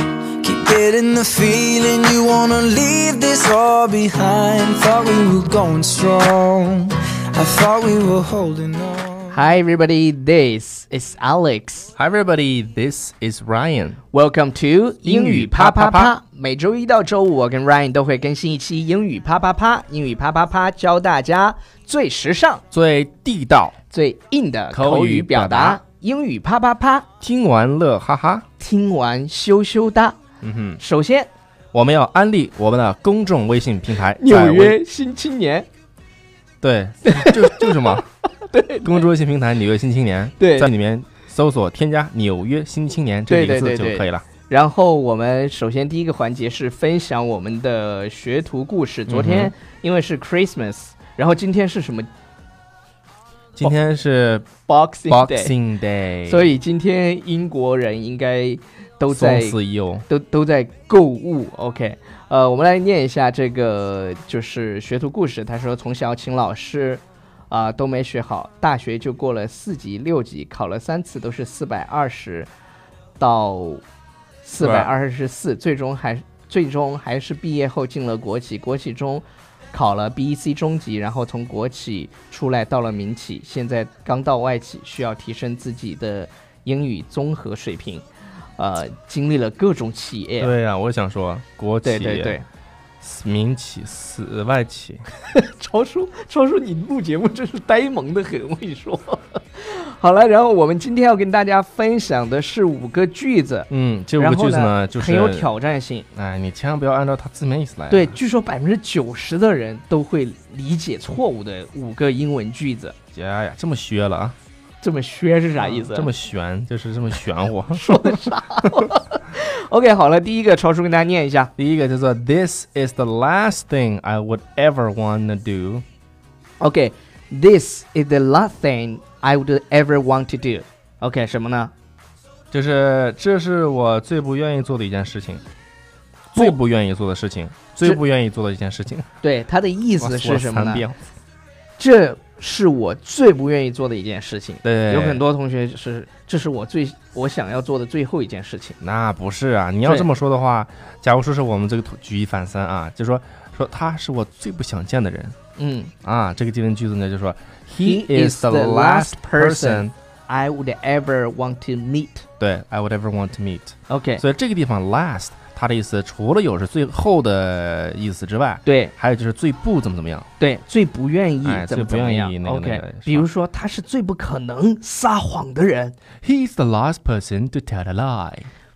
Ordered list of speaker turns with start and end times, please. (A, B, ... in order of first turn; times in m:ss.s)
0:00.4-0:09.4 A
0:09.3-0:11.9 B
0:12.0-0:14.0 C
0:14.1-0:22.6 B
0:15.0-0:16.1 C
0:22.7-0:23.8 C
0:23.9-0:27.1 B
0:24.7-0:25.8 C
0:27.2-0:28.5 C
0:28.6-0:30.2 B
0:30.4-0:30.8 C
0:30.8-0:31.3 B
0:31.7-0:34.8 C
0:34.2-0:35.7 B
0:36.6-0:38.1 C
0:37.0-0:39.1 B
0:38.8-0:44.3 C
0:40.4-0:40.7 B
0:43.3-0:52.1 B
0:49.1-0:49.5 C
0:53.6-0:54.5 C
0:54.7-0:55.5 B
0:55.1-0:56.5 C
0:56.3-1:12.5 B
0:59.1-1:00.0 C
1:13.2-1:13.8 B
1:14.4-1:28.0 B
1:14.6-1:14.9 C
1:28.6-1:30.5 B
1:30.4-1:32.4 C
1:31.8-1:32.4 B
1:33.0-1:35.0 C
1:35.3-1:46.1 B
1:43.7-1:45.5 C
1:46.1-1:48.2 C
1:47.9-1:53.0 B
1:53.1-1:54.4 C
1:54.8-1:56.1 B
1:55.6-1:58.3 C
1:57.8-2:01.5 B
2:01.6-2:05.8 C
2:06.6-2:11.7 B
2:12.5-2:15.4 C
2:16.3-2:19.1 C
2:19.2-2:20.8 B
2:20.0-2:21.0 C
2:21.8-2:28.8 B
2:24.6-2:25.2 C
2:28.8-2:35.4 C
2:35.6-2:35.9 B
2:36.0-2:39.9 C
2:37.8-2:42.2 B
2:42.4-2:50.3 C
2:43.9-2:44.2 B
2:48.6-2:48.9 B
2:50.4-2:56.0 B
2:51.4-2:53.3 C
2:56.2-2:58.5 C